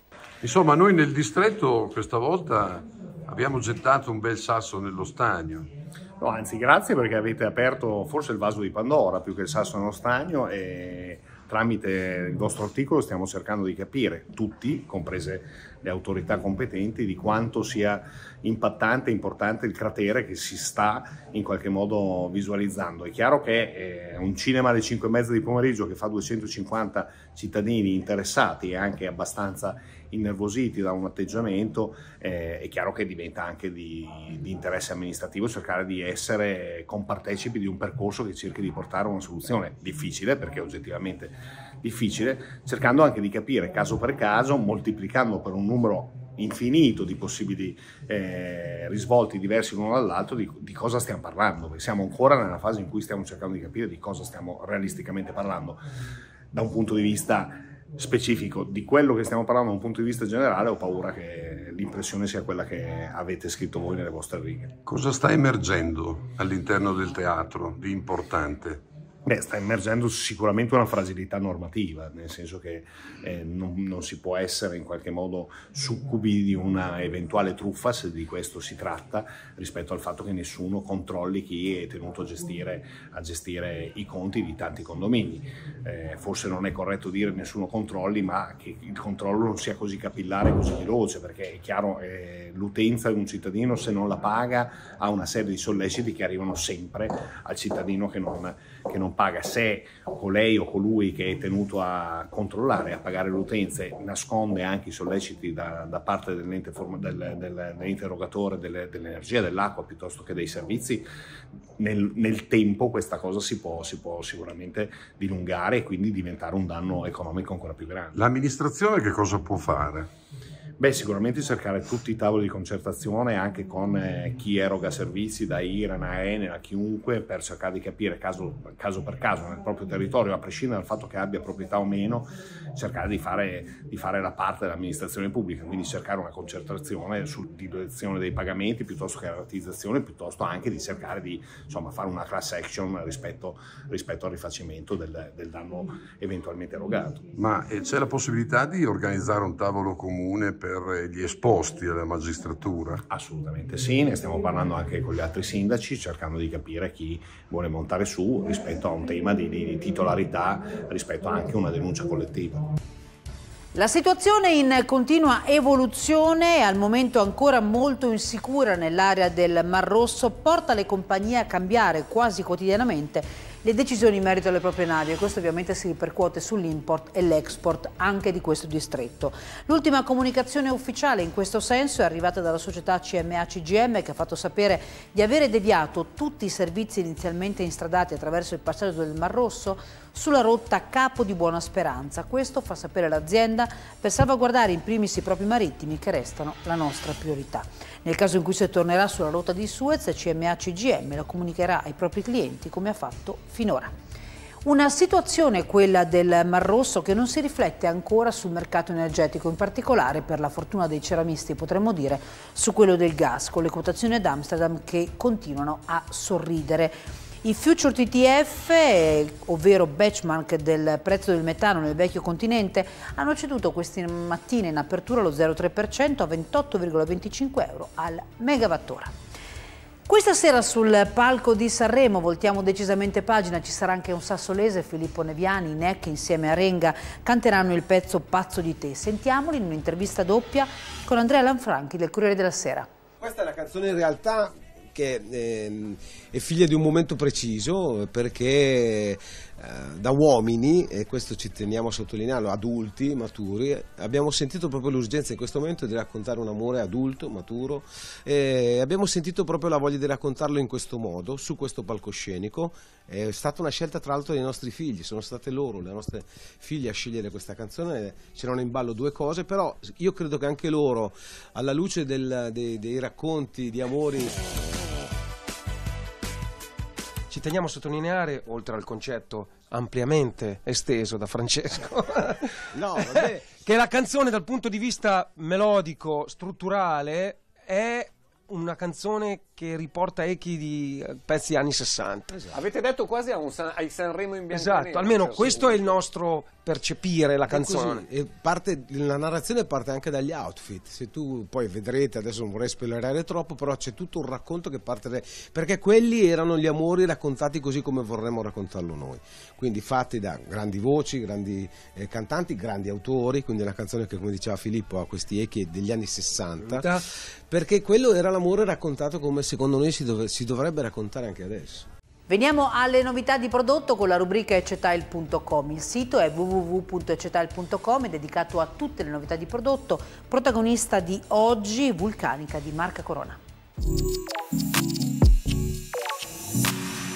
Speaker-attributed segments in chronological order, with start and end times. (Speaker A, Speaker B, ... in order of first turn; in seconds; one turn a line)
Speaker A: 0.4-5.7
Speaker B: 6.2-55.8
Speaker B: 56.5-64.7
Speaker A: 64.8-68.8
Speaker B: 69.3-111.0
Speaker B: 111.8-118.2
Speaker A: 118.1-120.1
Speaker B: 120.8-147.2
Speaker A: 147.3-153.0
Speaker B: 153.1-162.7
Speaker C: 163.7-203.9
Speaker C: 204.6-229.1
Speaker C: 230.1-242.9
Speaker D: 243.2-274.4
Speaker E: 277.3-292.5
Speaker D: 282.7-283.5
Speaker F: 292.5-295.9
Speaker E: 294.5-298.1
Speaker D: 297.5-321.9
Speaker C: 322.3-333.4